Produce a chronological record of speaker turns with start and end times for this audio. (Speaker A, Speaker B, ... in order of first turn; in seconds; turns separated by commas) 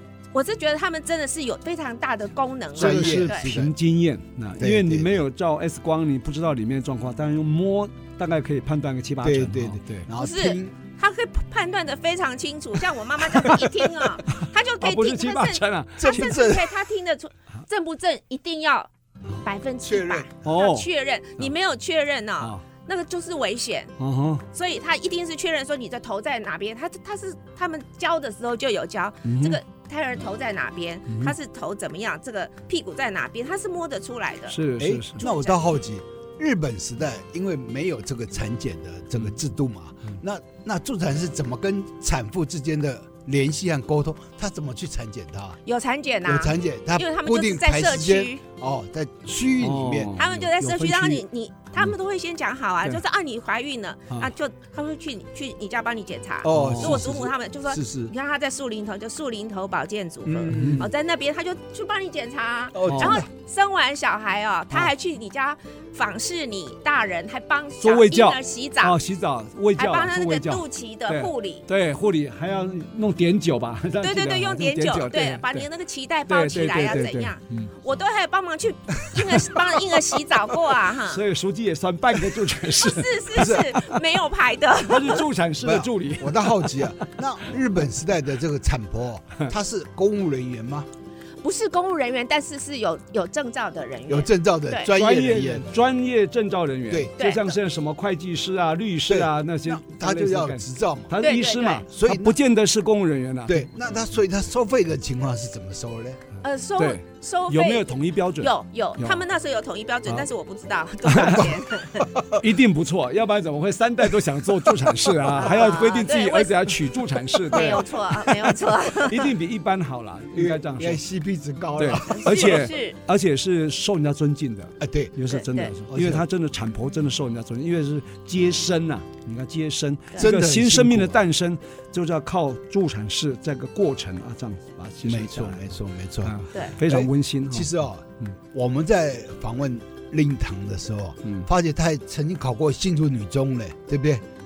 Speaker A: 0.3-3.5, Speaker B: 2.8-3.7, Speaker C: 2.8-10.1, Speaker B: 4.6-5.2, Speaker B: 9.2-10.7, Speaker A: 10.2-18.9, Speaker C: 14.3-16.4, Speaker B: 16.0-16.7, Speaker A: 19.4-23.9, Speaker B: 19.8-20.3, Speaker C: 20.4-20.9, Speaker C: 24.0-24.4, Speaker A: 24.5-34.6, Speaker C: 29.2-29.6, Speaker C: 31.1-31.4, Speaker C: 34.5-35.2, Speaker B: 34.8-45.6, Speaker A: 35.2-35.6, Speaker A: 45.6-48.4, Speaker B: 46.2-51.2, Speaker C: 49.6-50.5, Speaker A: 50.2-69.0, Speaker B: 56.4-58.1, Speaker C: 56.5-57.0, Speaker B: 60.3-60.9, Speaker C: 60.5-60.9, Speaker B: 62.7-63.3, Speaker C: 62.9-63.2, Speaker C: 67.8-75.7, Speaker A: 69.8-71.7, Speaker A: 74.0-81.2, Speaker C: 76.3-77.7, Speaker C: 79.3-79.5, Speaker C: 80.9-84.0, Speaker A: 82.6-85.2, Speaker B: 83.3-83.7, Speaker C: 84.9-87.1, Speaker B: 85.6-90.9, Speaker A: 91.4-94.9, Speaker B: 94.1-95.7, Speaker C: 94.9-103.7, Speaker A: 97.2-97.5, Speaker B: 99.1-101.1, Speaker A: 101.2-101.9, Speaker B: 101.9-102.4, Speaker B: 103.5-106.2, Speaker A: 106.4-112.1, Speaker C: 106.8-109.2, Speaker C: 111.1-111.6, Speaker C: 112.4-121.0, Speaker A: 115.3-116.7, Speaker A: 117.5-119.3, Speaker B: 120.3-122.7, Speaker C: 121.8-135.7, Speaker A: 122.0-123.0, Speaker B: 124.8-125.2, Speaker A: 125.3-125.7, Speaker B: 125.9-126.3, Speaker B: 130.2-131.2, Speaker B: 135.0-144.2, Speaker C: 136.2-137.7